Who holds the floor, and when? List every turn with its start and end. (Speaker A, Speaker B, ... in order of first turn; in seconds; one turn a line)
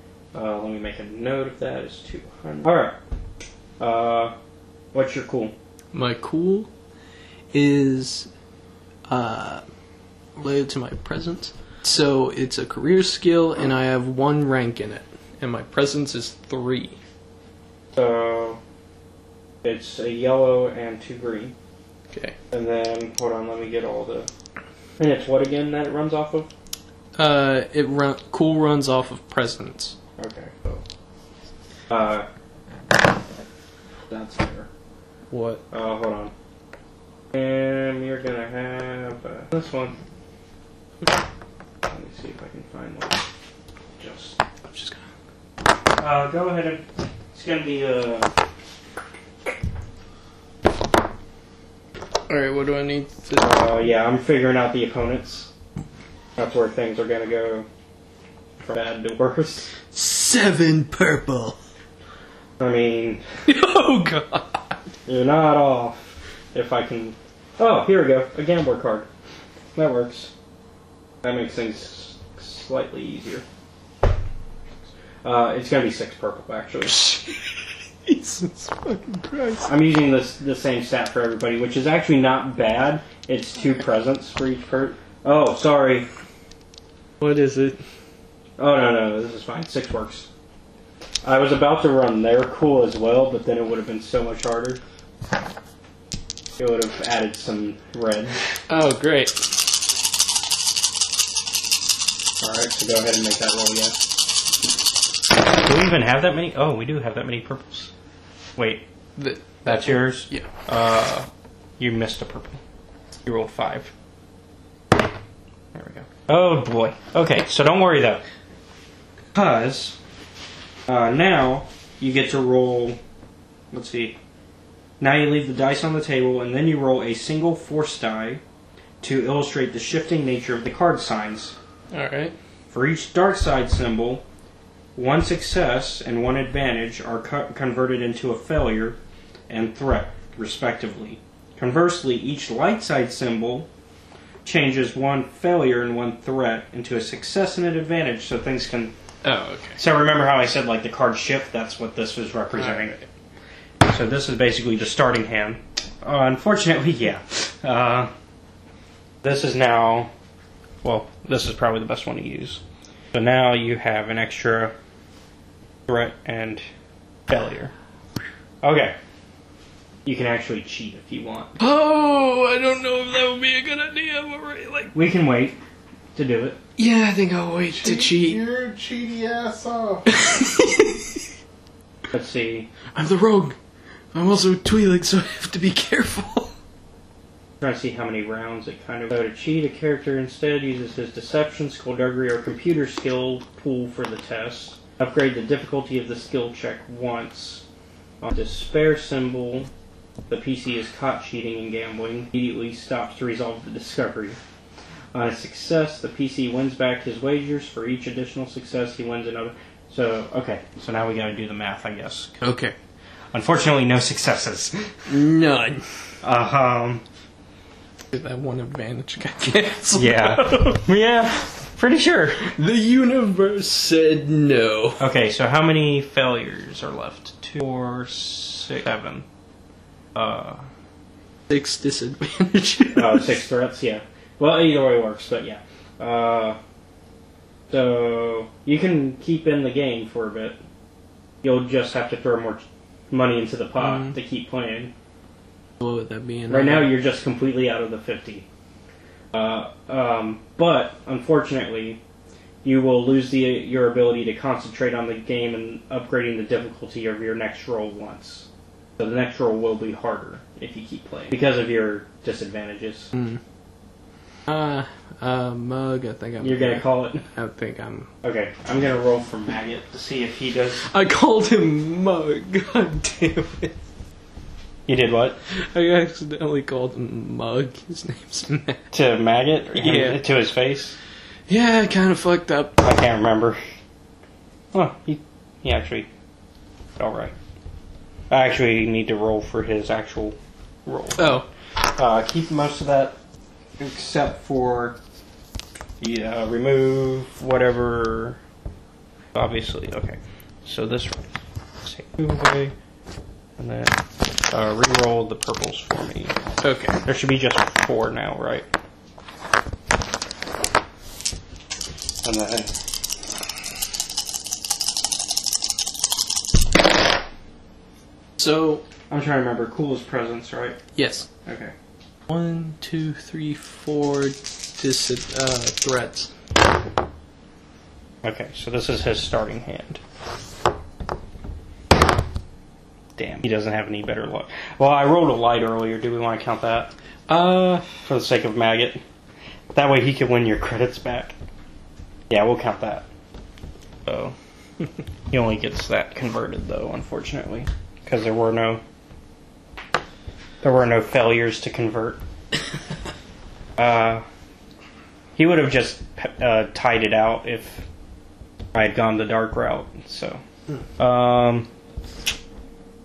Speaker A: 0.3-3.0
Speaker A: 3.8-4.3
Speaker A: 4.9-5.5
Speaker B: 5.9-6.7
Speaker B: 7.5-8.3
Speaker B: 9.1-9.6
Speaker B: 10.4-17.0
Speaker A: 17.9-18.6
Speaker A: 19.6-21.5
Speaker A: 22.5-24.3
Speaker A: 25.0-26.5
Speaker B: 27.2-30.0
Speaker A: 30.2-30.8
Speaker A: 31.9-32.3
Speaker A: 34.1-34.7
Speaker B: 35.3-35.6
Speaker A: 35.7-36.3
Speaker A: 37.3-40.0
Speaker A: 41.8-43.2
Speaker A: 44.0-44.4
Speaker B: 44.6-45.0
Speaker A: 46.0-48.3
Speaker B: 52.3-53.5
Speaker A: 53.4-55.5
Speaker A: 56.4-57.7
Speaker A: 58.6-59.7
Speaker B: 59.9-61.6
Speaker A: 62.6-63.3
Speaker B: 63.5-64.7
Speaker A: 65.1-66.0
Speaker A: 66.5-69.1
Speaker A: 69.8-70.3
Speaker A: 71.2-73.4
Speaker A: 75.2-77.1
Speaker B: 76.9-79.7
Speaker A: 79.7-86.1
Speaker B: 87.2-87.8
Speaker A: 88.6-90.3
Speaker A: 91.2-94.8
Speaker A: 96.6-98.4
Speaker B: 98.7-99.7
Speaker A: 102.4-104.0
Speaker A: 105.5-107.9
Speaker A: 108.6-108.8
Speaker B: 109.2-110.5
Speaker A: 109.6-112.6
Speaker A: 113.2-113.9
Speaker A: 115.8-118.2
Speaker A: 119.3-120.0
Speaker A: 120.9-123.0
Speaker A: 123.7-124.2
Speaker A: 125.0-128.4
Speaker A: 129.0-131.6
Speaker B: 131.9-132.3
Speaker A: 132.7-134.2
Speaker A: 134.9-139.0
Speaker A: 139.5-143.7
Speaker A: 144.4-148.9
Speaker B: 149.2-149.8
Speaker A: 149.8-153.0
Speaker B: 152.6-153.0
Speaker A: 153.8-158.1
Speaker A: 159.2-160.1
Speaker A: 160.8-162.6
Speaker A: 163.1-164.7
Speaker A: 165.9-166.7
Speaker A: 167.3-167.7
Speaker A: 168.6-169.0
Speaker A: 170.1-171.5
Speaker B: 171.6-174.9
Speaker A: 174.9-175.6
Speaker A: 176.2-176.6
Speaker B: 176.8-178.4
Speaker C: 177.7-180.2
Speaker B: 180.1-181.2
Speaker A: 182.1-182.7
Speaker B: 182.9-183.6
Speaker B: 184.1-186.5
Speaker A: 187.6-197.7
Speaker A: 198.2-199.7
Speaker A: 200.3-204.4
Speaker A: 205.1-212.4
Speaker B: 212.4-212.8
Speaker A: 213.3-214.9
Speaker B: 215.1-216.1
Speaker A: 216.2-217.0
Speaker B: 218.1-220.9
Speaker A: 219.9-222.6
Speaker B: 222.5-225.0
Speaker A: 225.0-229.3
Speaker A: 230.2-230.7
Speaker B: 231.5-233.4
Speaker A: 232.9-236.6
Speaker A: 237.7-240.6
Speaker A: 241.4-244.9
Speaker B: 243.8-244.2
Speaker B: 245.8-246.9
Speaker A: 246.5-248.5
Speaker A: 249.3-252.0
Speaker A: 252.6-258.5
Speaker A: 259.0-263.1
Speaker B: 263.1-263.4
Speaker B: 264.5-268.1
Speaker A: 266.4-267.2
Speaker A: 268.2-270.9
Speaker B: 270.9-273.8
Speaker A: 274.9-275.4
Speaker B: 275.5-278.9
Speaker A: 278.9-281.0
Speaker B: 279.7-280.2
Speaker B: 281.5-282.8
Speaker A: 282.8-283.8
Speaker A: 284.7-286.1
Speaker A: 287.0-287.4
Speaker A: 288.3-293.2
Speaker B: 291.2-291.5
Speaker A: 293.8-295.0
Speaker A: 296.0-298.4
Speaker A: 299.3-301.2
Speaker A: 301.8-302.8
Speaker A: 303.6-306.4
Speaker B: 306.6-307.0
Speaker A: 307.0-308.7
Speaker A: 312.2-312.7
Speaker B: 318.4-318.9
Speaker A: 319.1-320.8
Speaker B: 320.9-321.3
Speaker A: 321.4-321.7
Speaker B: 322.3-326.3
Speaker A: 328.2-330.0
Speaker A: 333.2-339.0
Speaker B: 337.3-337.8
Speaker A: 339.7-341.4
Speaker A: 342.3-343.1
Speaker A: 344.1-344.4
Speaker A: 345.3-348.8
Speaker A: 350.6-352.2
Speaker A: 353.8-354.2
Speaker A: 355.4-357.9
Speaker A: 358.7-360.4
Speaker A: 361.0-361.7